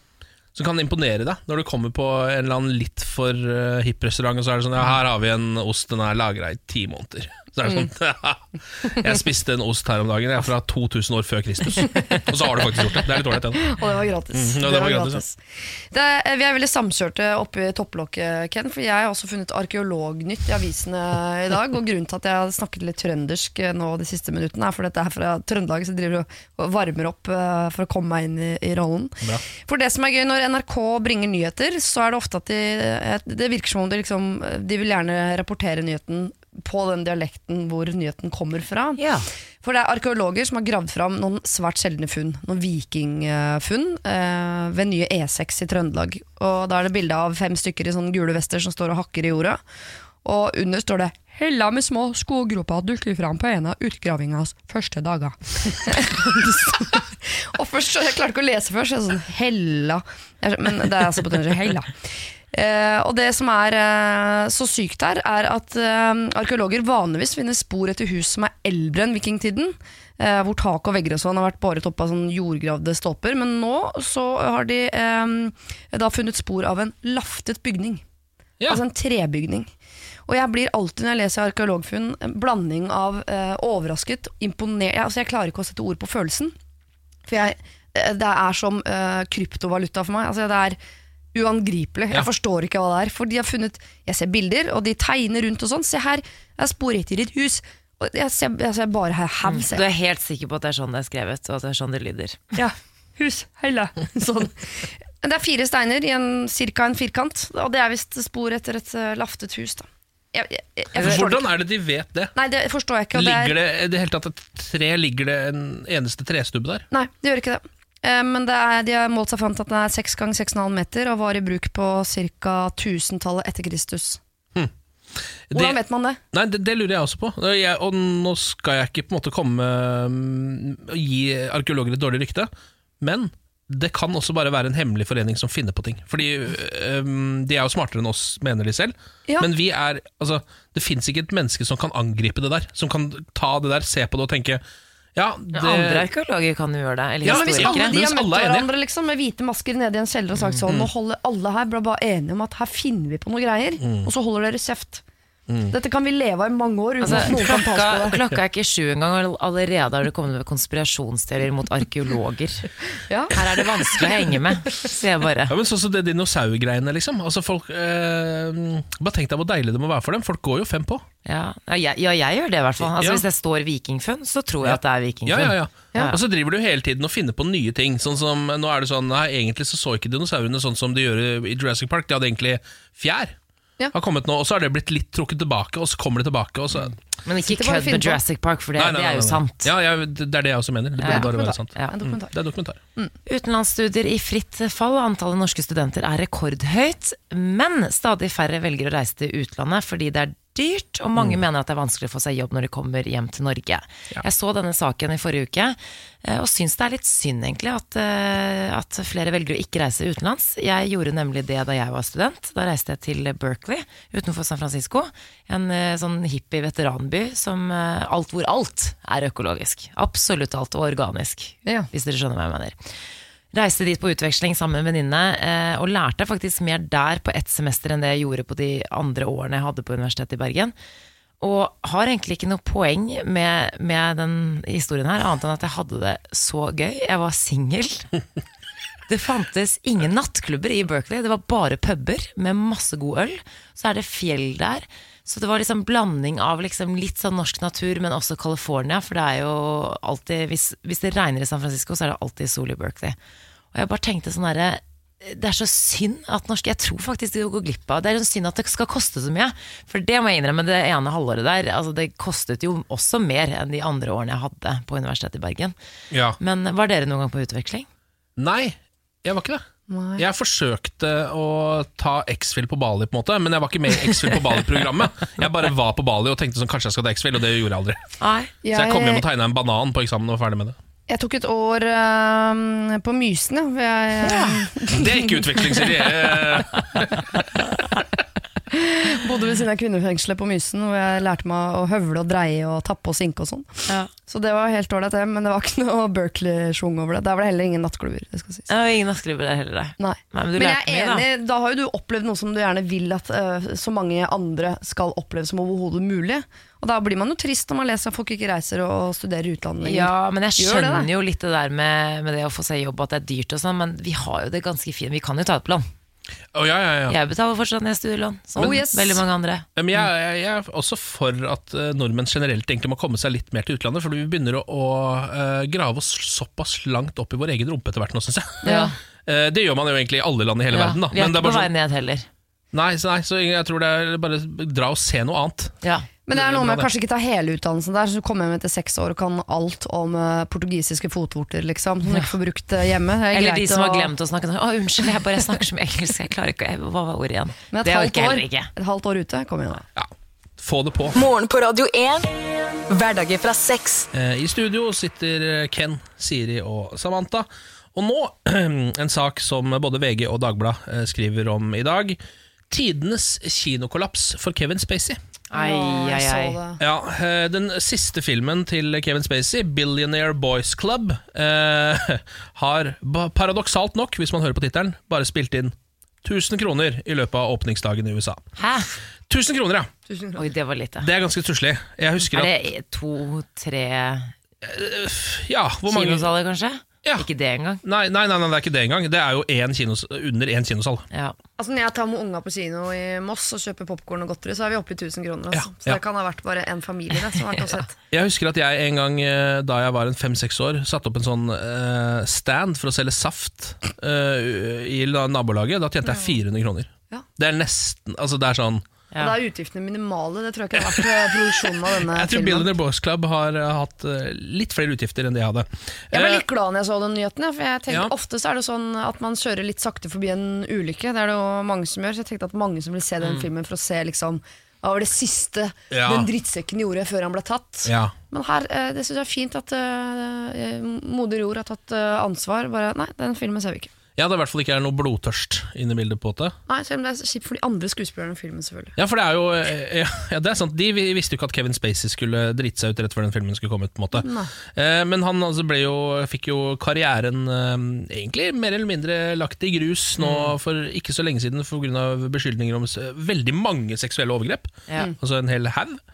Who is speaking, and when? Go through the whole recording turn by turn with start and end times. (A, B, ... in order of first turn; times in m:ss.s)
0:00.6-0:13.7 A
0:13.6-0:39.0 B
0:14.3-0:15.2 A
0:39.0-0:39.3 C
0:39.6-0:49.6 B
0:50.2-1:01.9 B
1:02.5-1:18.0 B
1:18.7-1:19.7 B
1:20.3-1:26.6 B
1:27.3-1:30.8 B
1:31.3-1:39.9 B
1:39.5-1:42.4 C
1:42.6-1:51.5 B
1:51.0-1:52.3 A
1:52.4-1:53.6 B
1:53.1-1:56.8 A
1:56.9-2:04.2 B
2:04.6-2:05.8 A
2:05.5-2:06.2 B
2:06.3-2:24.6 A
2:25.2-2:26.1 A
2:25.5-2:28.0 C
2:27.2-2:28.7 A
2:27.2-2:35.0 B
2:33.8-2:34.1 A
2:35.5-2:35.7 A
2:35.7-2:38.2 B
2:37.0-2:42.8 C
2:37.1-2:37.4 A
2:43.1-2:43.3 B
2:43.3-2:45.5 C
2:45.5-2:51.0 A
2:51.3-2:56.2 C
2:52.8-2:53.2 A
2:54.6-3:03.4 A
3:03.9-3:07.0 A
3:07.2-3:09.7 C
3:07.4-3:08.2 B
3:08.8-3:12.8 A
3:11.0-3:11.9 C
3:11.0-3:12.4 B
3:13.3-3:43.0 C
3:21.2-3:21.4 A
3:43.5-3:50.7 C
3:51.4-3:58.1 C
3:59.1-4:13.2 C
4:13.7-4:25.8 C
4:26.1-4:26.4 A
4:26.4-4:27.9 C
4:28.4-4:29.6 A
4:29.9-4:30.2 B
4:30.2-4:38.0 A
4:38.2-4:38.5 C
4:38.6-4:39.2 B
4:38.7-4:40.8 A
4:41.1-4:45.7 B
4:44.2-4:44.7 C
4:44.9-4:47.1 A
4:48.7-4:58.7 B
4:58.7-5:01.2 C
5:00.0-5:11.1 B
5:09.8-5:15.9 C
5:16.5-5:17.2 A
5:17.1-5:19.7 C
5:18.6-5:19.2 B
5:19.8-5:28.7 A
5:28.6-5:28.9 B
5:28.6-5:29.0 C
5:29.2-5:31.7 A
5:30.7-5:32.3 C
5:32.7-5:35.8 A
5:35.8-5:36.1 C
5:36.3-5:44.1 B
5:36.3-5:36.9 A
5:42.1-5:42.3 C
5:43.3-5:48.7 C
5:47.7-5:49.8 B
5:50.0-5:51.2 A
5:51.2-5:52.3 D
5:52.9-5:54.1 D
5:54.1-6:02.2 A
6:02.7-6:05.2 A
6:05.5-6:06.6 C
6:05.5-6:06.8 B
6:06.8-6:18.4 A
6:18.6-6:18.9 C
6:19.3-6:19.9 A
6:20.1-6:20.4 B
6:20.4-6:21.1 C
6:21.0-6:22.5 A
6:22.2-6:24.3 C
6:24.6-6:26.3 A
6:25.9-6:27.8 C
6:27.8-6:31.0 A
6:31.1-6:31.4 C
6:31.6-6:38.0 B
6:35.5-6:36.0 A
6:38.1-6:48.8 A
6:49.2-6:52.7 B
6:52.1-6:56.4 A
6:56.1-7:13.9 B
7:05.9-7:06.3 A
7:07.8-7:08.1 A
7:14.2-7:16.6 A
7:16.7-7:19.0 B
7:19.0-7:36.0 A
7:24.1-7:24.5 B
7:30.2-7:30.5 C